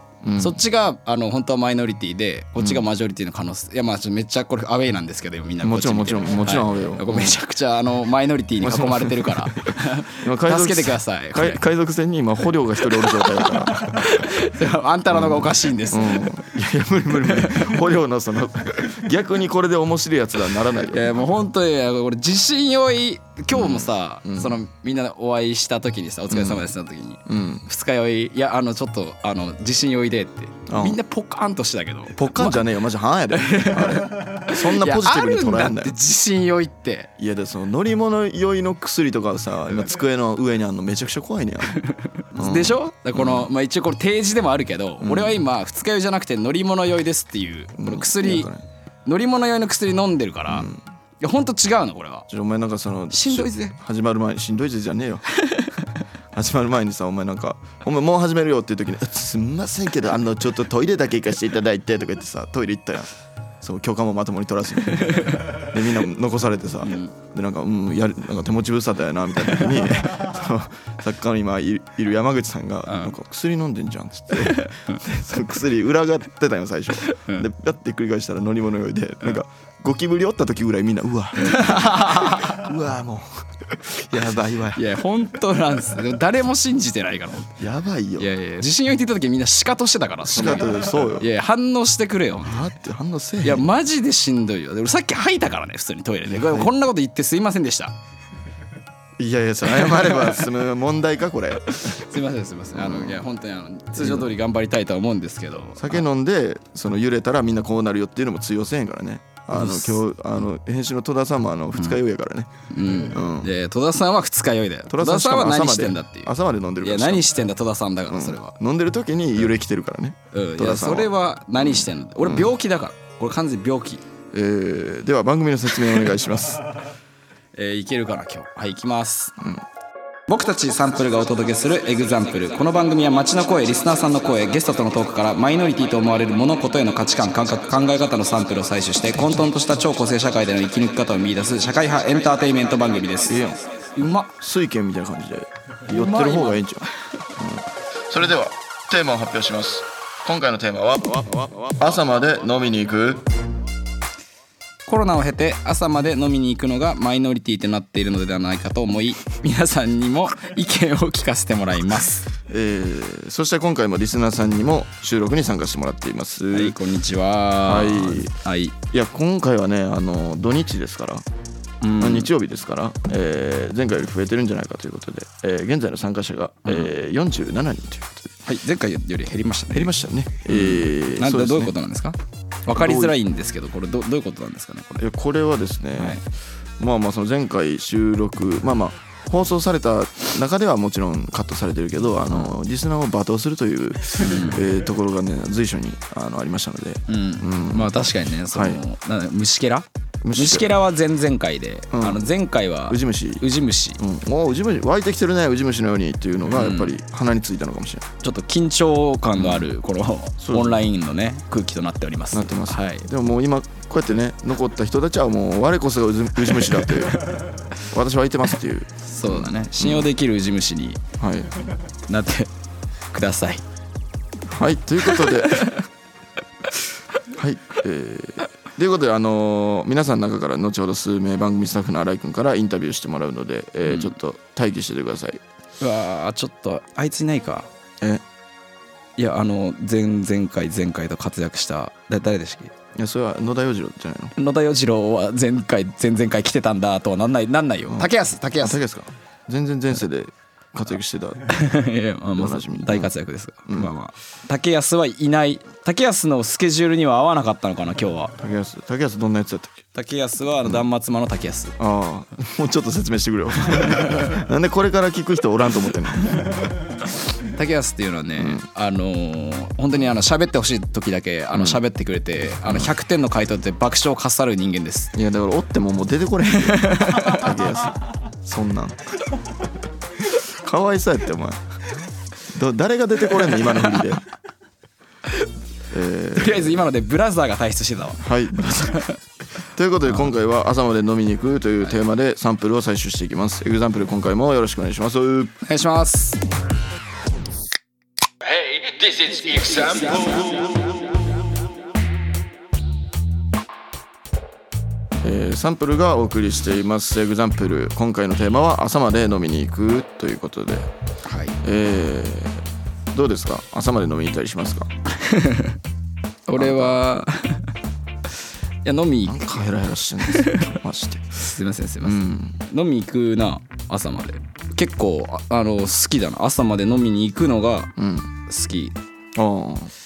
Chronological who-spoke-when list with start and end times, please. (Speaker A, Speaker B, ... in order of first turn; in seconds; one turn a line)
Speaker A: 0.2-0.6
Speaker B: 0.4-11.6
Speaker A: 2.6-2.8
Speaker A: 5.6-7.4
Speaker A: 8.6-14.4
Speaker B: 12.9-16.4
Speaker A: 15.1-21.2
Speaker B: 17.2-17.8
Speaker B: 20.9-32.6
Speaker A: 23.5-24.6
Speaker A: 26.3-26.7
Speaker A: 27.3-27.7
Speaker A: 30.7-31.0
Speaker A: 32.1-36.0
Speaker B: 33.3-37.1
Speaker A: 37.2-41.8
Speaker B: 41.8-48.5
Speaker A: 42.4-43.5
Speaker A: 45.0-45.4
Speaker A: 47.8-48.6
Speaker B: 49.0-50.7
Speaker A: 50.5-50.8
Speaker B: 51.2-52.3
Speaker A: 52.3-55.3
Speaker B: 53.1-53.8
Speaker A: 56.3-63.1
Speaker A: 63.6-84.8
Speaker B: 65.0-65.5
Speaker B: 66.8-67.1
Speaker B: 72.9-73.1
Speaker B: 74.5-75.0
Speaker B: 77.1-77.5
Speaker B: 81.4-82.7
Speaker B: 84.7-87.6
Speaker A: 87.6-88.3
Speaker B: 88.2-92.6
Speaker A: 90.3-91.3
Speaker A: 92.4-93.7
Speaker B: 93.4-97.9
Speaker A: 96.3-96.7
Speaker A: 99.2-102.1
Speaker B: 99.7-100.5
Speaker B: 101.8-106.0
Speaker A: 102.8-103.3
Speaker A: 104.0-104.3
Speaker A: 105.8-112.5
Speaker B: 109.5-110.0
Speaker B: 112.7-118.5
Speaker A: 113.1-113.5
Speaker A: 114.9-117.3
Speaker A: 118.1-122.5
Speaker B: 120.3-124.0
Speaker A: 124.3-126.7
Speaker B: 127.5-129.4
Speaker B: 130.3-144.3
Speaker A: 139.1-139.4
Speaker A: 143.3-143.6
Speaker A: 144.4-153.2
Speaker B: 145.9-146.6
Speaker B: 154.9-162.3
Speaker A: 162.5-166.8
Speaker B: 166.5-168.8
Speaker A: 167.7-168.3
Speaker A: 168.9-171.2
Speaker B: 171.8-172.3
Speaker A: 172.0-178.3
Speaker B: 176.7-176.9
Speaker B: 178.5-179.9
Speaker A: 179.7-181.7
Speaker B: 180.5-185.0
Speaker A: 182.7-183.2
Speaker A: 185.0-186.2
Speaker B: 186.0-186.2
Speaker A: 186.8-197.9
Speaker B: 194.2-194.7
Speaker B: 197.1-204.0
Speaker A: 198.5-198.8
Speaker A: 200.2-200.7
Speaker A: 201.9-202.2
Speaker A: 202.9-203.4
Speaker A: 204.0-208.1
Speaker B: 206.5-206.9
Speaker B: 208.2-213.1
Speaker A: 209.4-209.7
Speaker A: 210.4-210.8
Speaker A: 212.3-220.1
Speaker B: 216.6-217.4
Speaker B: 219.0-221.0
Speaker A: 221.2-221.6
Speaker B: 222.1-222.5
Speaker B: 223.1-223.6
Speaker A: 224.5-225.7
Speaker B: 225.1-225.8
Speaker A: 227.3-235.4
Speaker B: 233.9-234.1
Speaker B: 235.8-237.7
Speaker B: 239.2-242.7
Speaker A: 242.9-244.3
Speaker B: 244.4-248.8
Speaker A: 247.9-251.5
Speaker B: 251.5-258.4
Speaker A: 252.3-253.1
Speaker A: 253.7-253.9
Speaker A: 258.4-259.8
Speaker B: 259.9-261.8
Speaker A: 261.8-266.4
Speaker B: 263.9-264.2
Speaker B: 267.5-275.1
Speaker A: 268.4-268.6
Speaker A: 271.5-271.8
Speaker A: 272.7-272.9
Speaker A: 275.1-279.1
Speaker B: 276.7-277.5
Speaker A: 280.5-281.6
Speaker A: 282.5-284.2
Speaker A: 285.9-286.8
Speaker B: 286.4-288.2
Speaker A: 288.2-289.0
Speaker A: 289.7-295.6
Speaker B: 295.6-296.4
Speaker C: 298.6-300.7
Speaker A: 305.2-310.9
Speaker B: 311.2-311.6
Speaker A: 311.6-314.9
Speaker B: 315.1-315.8
Speaker B: 316.5-317.7
Speaker A: 316.6-317.0
Speaker B: 318.9-319.6
Speaker A: 319.2-321.3
Speaker B: 320.2-320.7
Speaker B: 321.3-327.9
Speaker A: 322.0-322.6
Speaker A: 328.0-328.3
Speaker B: 328.5-329.0
Speaker A: 329.4-329.9